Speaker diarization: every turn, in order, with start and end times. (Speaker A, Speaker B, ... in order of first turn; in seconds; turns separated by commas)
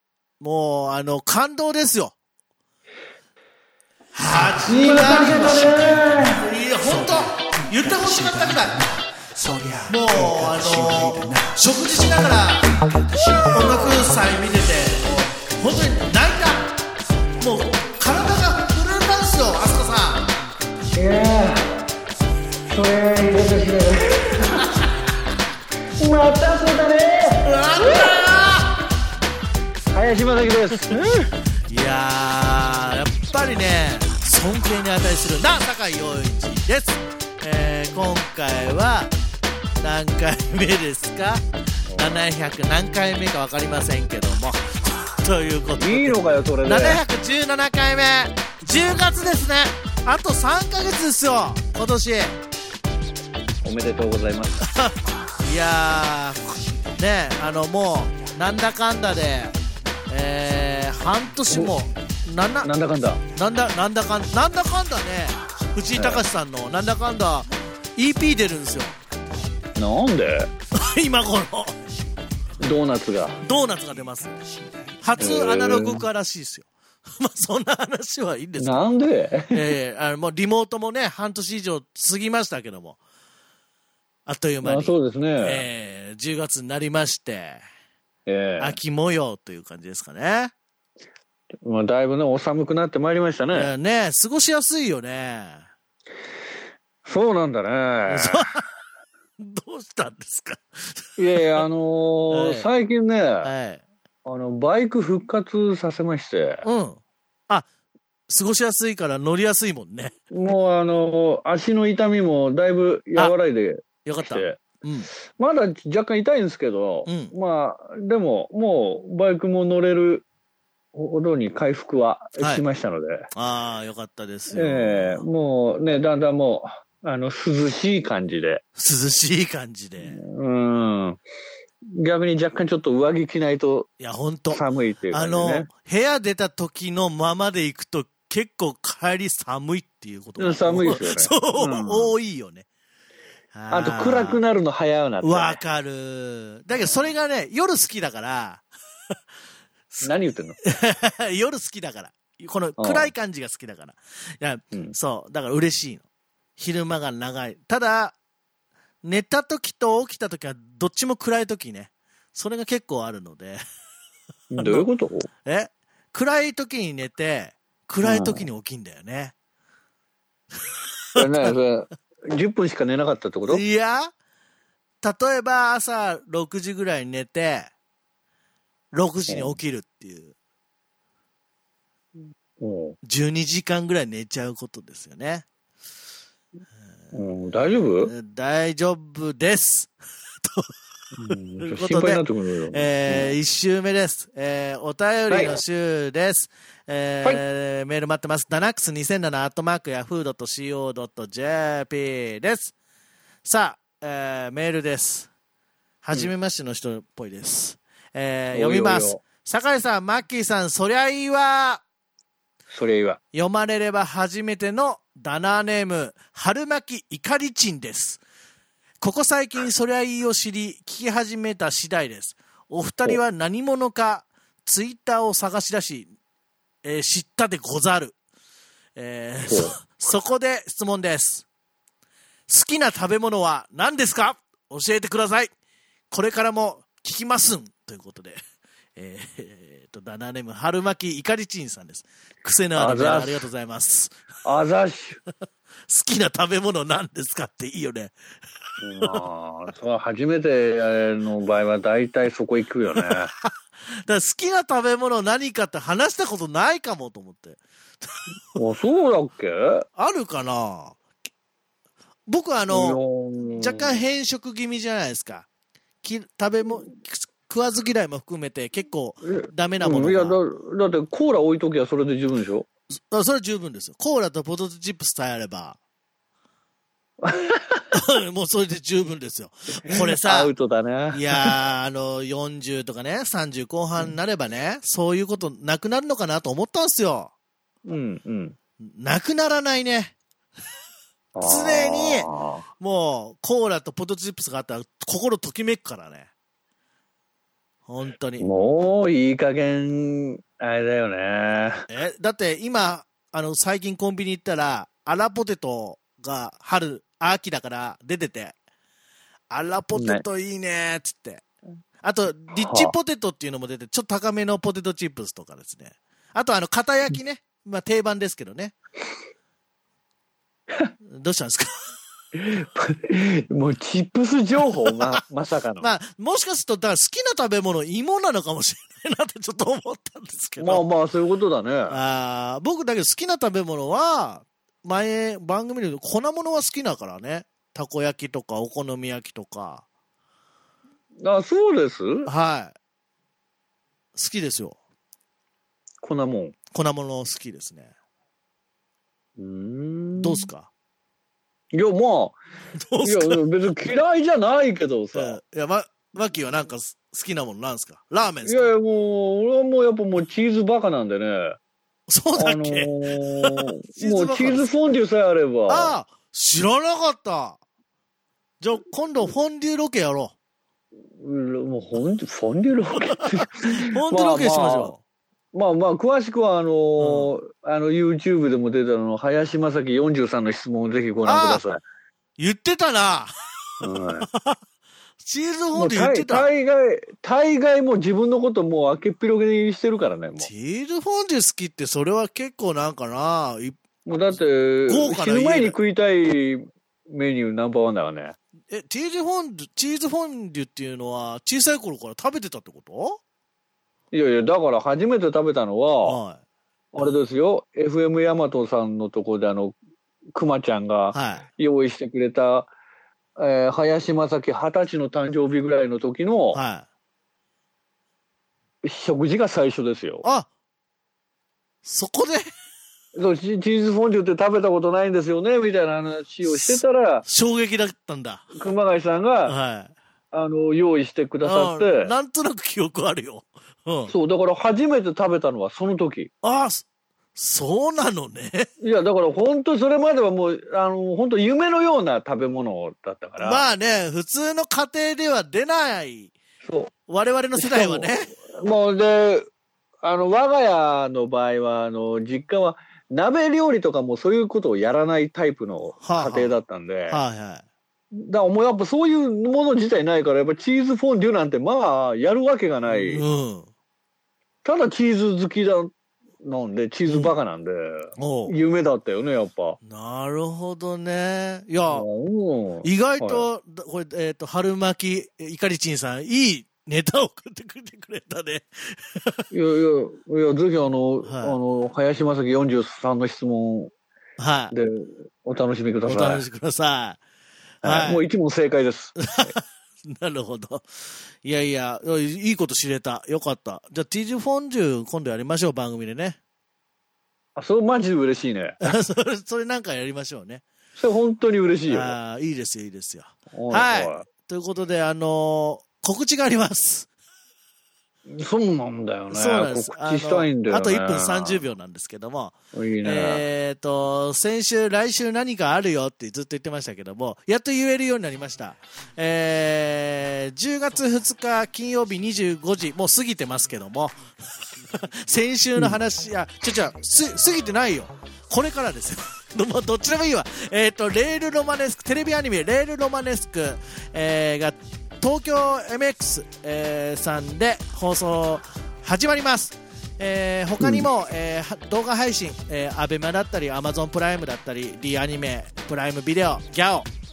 Speaker A: 0.4-2.1, Speaker A: 4.2-8.9, Speaker B: 4.7-6.4, Speaker A: 9.8-12.7, Speaker A: 13.4-16.7, Speaker A: 17.4-20.3, Speaker B: 20.9-21.6, Speaker B: 22.7-24.6, Speaker B: 26.0-28.1, Speaker A: 27.4-28.7, Speaker B: 29.9-31.3, Speaker A: 31.7-39.1, Speaker A: 39.8-41.4, Speaker B: 41.9-42.3, Speaker A: 42.0-52.4, Speaker B: 45.8-47.0, Speaker B: 53.6-54.6, Speaker A: 54.7-59.5, Speaker A: 60.1-62.7, Speaker B: 62.6-63.2, Speaker A: 63.3-69.0, Speaker B: 66.0-66.2, Speaker B: 69.8-70.5, Speaker A: 70.8-71.8, Speaker B: 72.6-73.4, Speaker A: 73.4-74.4, Speaker A: 75.0-78.8, Speaker B: 75.2-76.0, Speaker B: 78.6-79.7, Speaker A: 79.5-83.0, Speaker A: 84.3-87.6, Speaker B: 84.6-85.6, Speaker B: 88.3-88.8, Speaker A: 88.6-90.5, Speaker B: 91.6-93.7, Speaker A: 93.5-95.7, Speaker B: 97.0-98.5, Speaker A: 98.1-98.6, Speaker A: 99.4-101.6, Speaker B: 101.2-103.5, Speaker A: 102.3-102.7, Speaker A: 103.4-103.8, Speaker B: 104.2-106.7, Speaker A: 106.6-107.7, Speaker A: 108.3-110.2, Speaker B: 110.3-114.6, Speaker A: 114.0-115.1, Speaker B: 115.3-120.2, Speaker A: 117.1-117.3, Speaker B: 120.9-123.3, Speaker A: 122.4-122.7, Speaker A: 123.3-125.2, Speaker B: 124.5-128.6, Speaker A: 128.8-130.2, Speaker B: 130.0-131.2, Speaker B: 131.9-133.9, Speaker A: 134.0-142.7, Speaker B: 134.5-135.7, Speaker B: 140.4-142.1, Speaker A: 143.5-144.4, Speaker B: 143.7-145.6, Speaker A: 145.2-148.6, Speaker B: 146.7-147.0, Speaker B: 150.0-150.6, Speaker A: 150.7-156.0, Speaker B: 152.8-153.1, Speaker A: 156.6-158.2, Speaker A: 159.0-163.6, Speaker B: 164.5-165.3, Speaker A: 164.6-164.9, Speaker A: 165.4-169.3, Speaker B: 168.0-168.5, Speaker A: 170.7-171.5, Speaker B: 171.2-173.6, Speaker A: 173.5-174.1, Speaker A: 175.0-177.7, Speaker A: 178.9-180.3, Speaker B: 179.3-179.6, Speaker B: 182.6-183.0, Speaker A: 183.0-185.4, Speaker B: 187.1-188.1, Speaker A: 188.1-189.9, Speaker A: 190.4-190.7, Speaker B: 191.2-193.3, Speaker A: 191.7-202.7, Speaker B: 195.3-195.6, Speaker A: 203.4-205.3, Speaker A: 206.0-211.8, Speaker B: 208.5-209.2, Speaker B: 212.7-213.2, Speaker A: 213.3-218.2, Speaker A: 219.0-226.1, Speaker A: 226.8-228.2, Speaker A: 229.0-231.5, Speaker B: 229.4-229.8, Speaker A: 232.5-235.5, Speaker A: 236.1-238.4, Speaker A: 239.0-244.2, Speaker B: 242.8-243.5, Speaker B: 244.4-245.2, Speaker A: 245.9-248.1, Speaker B: 248.8-253.3, Speaker A: 249.0-249.2, Speaker A: 253.0-253.5, Speaker A: 254.0-258.1, Speaker B: 258.6-259.9, Speaker A: 260.0-261.0, Speaker A: 262.3-263.0, Speaker B: 262.7-264.0, Speaker A: 263.5-265.5, Speaker A: 266.0-270.4, Speaker B: 269.2-272.7, Speaker A: 273.1-275.8, Speaker B: 277.2-277.9, Speaker A: 277.9-280.5, Speaker B: 279.9-281.6, Speaker A: 281.1-287.3, Speaker B: 287.9-288.6, Speaker A: 288.8-290.1, Speaker B: 291.4-292.6, Speaker A: 291.4-296.3, Speaker A: 297.9-298.5, Speaker B: 298.4-301.9, Speaker A: 301.9-308.6, Speaker A: 309.5-311.4, Speaker B: 309.9-310.2, Speaker A: 312.0-318.8, Speaker B: 312.5-312.9, Speaker A: 321.1-321.7, Speaker B: 322.3-325.9, Speaker A: 325.8-330.9, Speaker B: 330.6-332.0, Speaker A: 331.9-339.9, Speaker B: 341.2-342.3, Speaker A: 342.3-342.7, Speaker A: 344.1-344.8, Speaker B: 346.0-346.6, Speaker A: 346.7-347.9, Speaker B: 349.4-350.5, Speaker A: 350.2-350.7, Speaker B: 351.7-352.4, Speaker A: 352.8-353.4, Speaker B: 353.0-355.4, Speaker A: 355.1-358.7, Speaker B: 358.4-361.6, Speaker A: 362.1-364.7, Speaker B: 362.4-366.0, Speaker A: 365.7-367.6, Speaker A: 368.6-370.3, Speaker B: 371.2-374.9, Speaker A: 373.4-375.0, Speaker B: 375.5-381.8, Speaker A: 377.0-377.3, Speaker A: 381.2-381.6, Speaker A: 382.4-384.6, Speaker B: 383.8-384.3, Speaker A: 385.2-386.5, Speaker B: 385.8-390.5, Speaker A: 390.4-393.8, Speaker B: 394.1-398.4, Speaker A: 394.9-395.8, Speaker A: 398.7-403.2, Speaker B: 404.1-406.2, Speaker A: 406.0-406.4, Speaker B: 406.9-409.8, Speaker B: 410.3-412.7, Speaker A: 411.1-411.4, Speaker B: 413.4-416.6, Speaker A: 416.5-416.9, Speaker B: 418.8-420.2, Speaker A: 421.8-422.5, Speaker B: 423.1-427.2, Speaker A: 426.4-428.4, Speaker B: 428.5-429.6, Speaker A: 429.5-429.9, Speaker B: 430.3-432.1, Speaker A: 431.4-434.1, Speaker B: 434.1-436.3, Speaker A: 436.4-438.7, Speaker B: 438.8-443.6, Speaker A: 443.4-446.3, Speaker B: 446.6-446.9, Speaker A: 447.1-448.3, Speaker B: 447.6-449.5, Speaker B: 450.0-457.2, Speaker A: 456.0-457.6, Speaker B: 458.1-463.2, Speaker A: 462.9-463.7, Speaker B: 464.6-469.8, Speaker A: 467.1-467.3, Speaker A: 468.2-468.5, Speaker A: 469.9-472.1, Speaker B: 471.9-473.5, Speaker A: 472.8-479.5, Speaker B: 479.5-483.9, Speaker A: 481.2-481.6, Speaker A: 484.4-484.7, Speaker B: 484.7-486.4, Speaker A: 486.1-487.2, Speaker A: 487.8-488.2, Speaker B: 487.8-489.5, Speaker A: 489.3-490.9, Speaker A: 491.4-496.4, Speaker B: 497.6-498.8, Speaker A: 498.8-500.6, Speaker B: 501.0-502.2, Speaker A: 501.9-507.1, Speaker B: 503.5-504.3, Speaker B: 508.3-511.6, Speaker A: 509.3-524.2, Speaker B: 512.7-513.4, Speaker A: 524.9-547.1, Speaker B: 540.8-541.1